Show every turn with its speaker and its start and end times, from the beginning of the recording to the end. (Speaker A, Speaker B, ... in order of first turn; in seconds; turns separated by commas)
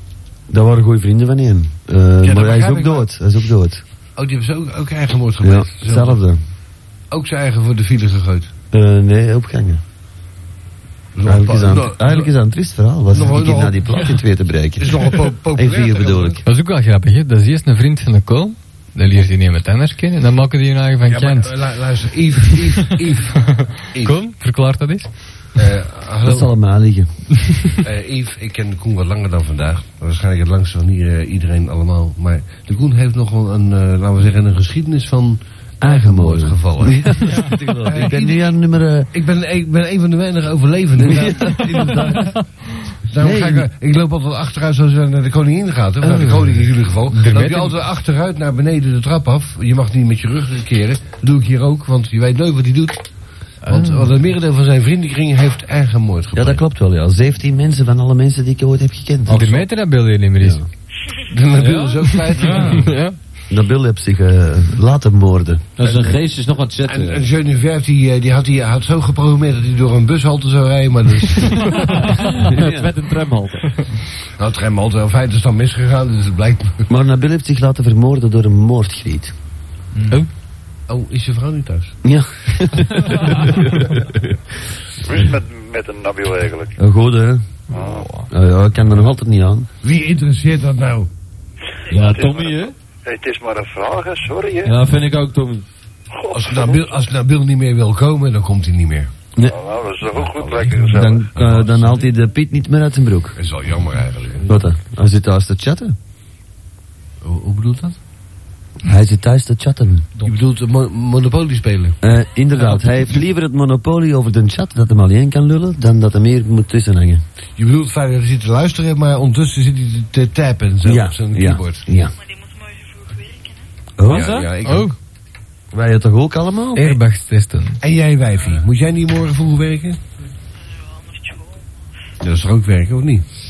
Speaker A: 0.5-3.8, Speaker B: 2.2-3.1, Speaker B: 4.2-6.2, Speaker A: 5.4-6.4, Speaker B: 7.1-8.5, Speaker A: 8.7-9.8, Speaker B: 11.1-12.3, Speaker A: 11.2-16.4, Speaker B: 13.1-14.1, Speaker B: 14.8-16.4, Speaker C: 16.4-21.6, Speaker B: 21.1-24.2, Speaker C: 22.4-23.0, Speaker C: 23.6-25.5, Speaker B: 25.6-26.5, Speaker A: 26.2-27.7, Speaker B: 27.8-38.6, Speaker A: 35.8-39.1, Speaker B: 39.1-42.2, Speaker A: 41.0-42.4, Speaker B: 43.1-53.1, Speaker A: 43.2-43.7, Speaker C: 46.0-46.5, Speaker C: 47.1-47.8, Speaker C: 53.6-54.1, Speaker B: 53.6-56.6, Speaker A: 56.3-59.6, Speaker C: 59.3-60.6, Speaker A: 60.4-60.6, Speaker B: 61.3-62.9, Speaker D: 61.6-61.9, Speaker C: 62.1-63.2, Speaker A: 63.5-65.7, Speaker D: 65.8-67.2, Speaker B: 65.8-66.1, Speaker B: 66.8-71.8, Speaker D: 71.8-73.7, Speaker A: 72.5-73.0, Speaker B: 74.4-76.8, Speaker A: 76.9-79.3, Speaker B: 80.9-82.0, Speaker A: 82.0-84.4, Speaker E: 85.0-86.8, Speaker A: 86.8-87.6, Speaker C: 87.7-88.3, Speaker E: 87.7-88.0, Speaker A: 88.3-89.7, Speaker B: 89.8-91.1, Speaker D: 91.9-92.7, Speaker E: 92.0-94.8, Speaker D: 94.6-95.6, Speaker E: 96.2-96.8, Speaker B: 96.3-99.1, Speaker E: 99.4-101.2, Speaker B: 100.0-102.1, Speaker A: 100.8-103.4, Speaker B: 103.3-104.5, Speaker A: 104.5-106.0, Speaker B: 107.2-108.0, Speaker A: 108.8-110.1, Speaker B: 110.2-112.0, Speaker A: 112.0-117.2, Speaker D: 112.6-112.9, Speaker B: 117.6-121.9, Speaker A: 120.8-122.2, Speaker A: 124.0-124.3, Speaker B: 124.0-125.0, Speaker D: 124.0-124.5, Speaker C: 124.5-125.0, Speaker A: 125.7-127.0, Speaker C: 126.7-127.8, Speaker B: 127.8-130.0, Speaker B: 132.2-133.2